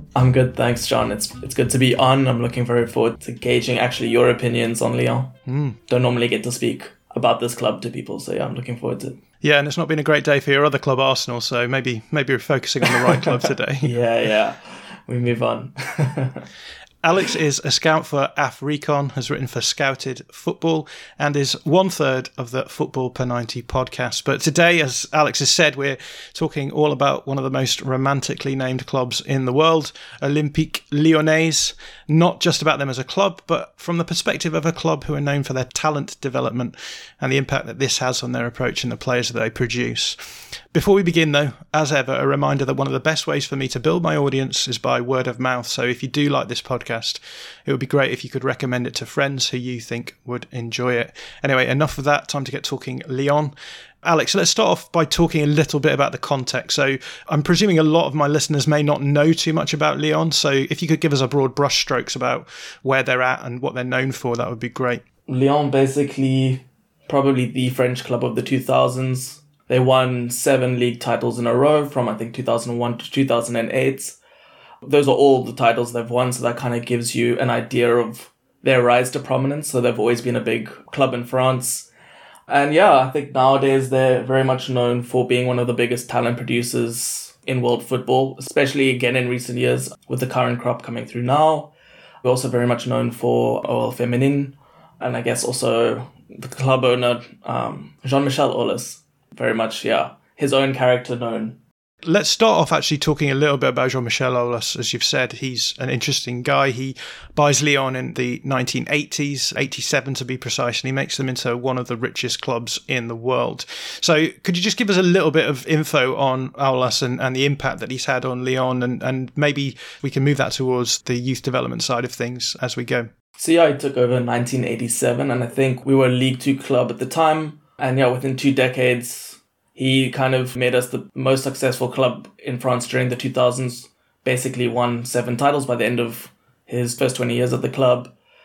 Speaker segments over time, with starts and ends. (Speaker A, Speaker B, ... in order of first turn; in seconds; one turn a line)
Speaker A: 0.1-5.3
Speaker B: 5.5-5.8
Speaker A: 5.9-9.2
Speaker B: 9.4-13.9
Speaker A: 12.9-16.4
Speaker B: 17.0-40.2
Speaker B: 40.7-65.0
Speaker A: 65.3-74.2
Speaker A: 74.8-81.9
Speaker A: 82.5-91.7
Speaker A: 92.2-101.6
Speaker B: 102.0-123.1
Speaker A: 123.4-138.1